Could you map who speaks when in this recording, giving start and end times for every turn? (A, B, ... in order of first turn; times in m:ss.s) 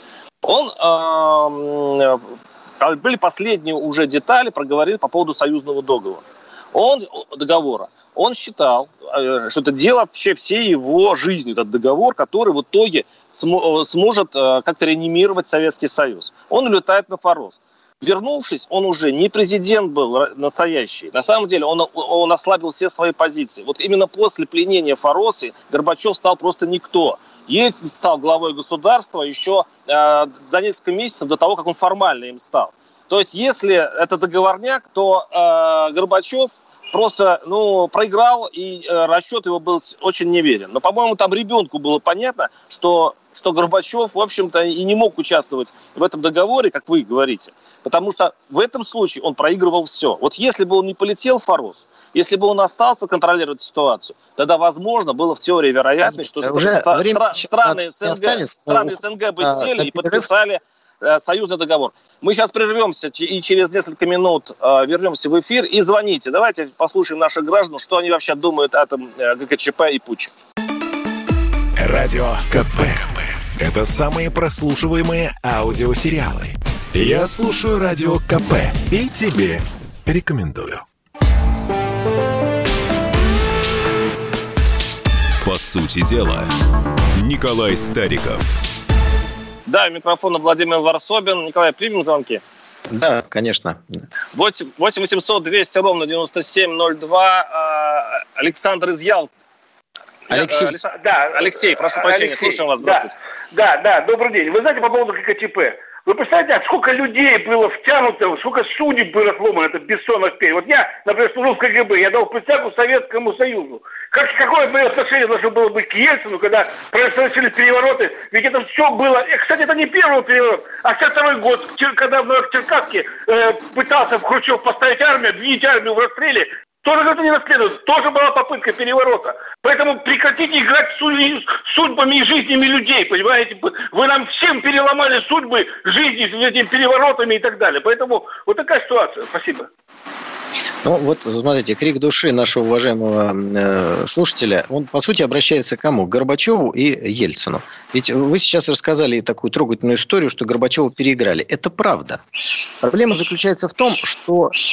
0:00.4-0:02.2 A
0:02.8-1:10.3 A
0:56.0-1:00.3 B
1:11.8-1:20.8 C
1:25.4-1:26.5 D
1:27.1-1:28.6 D
1:29.7-1:32.4 A
1:32.9-1:34.0 B
1:34.3-1:39.3 A
1:40.3-1:40.8 B
1:40.3-1:43.2 A
1:40.9-2:19.7 E
2:20.8-2:32.2 B
2:32.8-2:34.5 B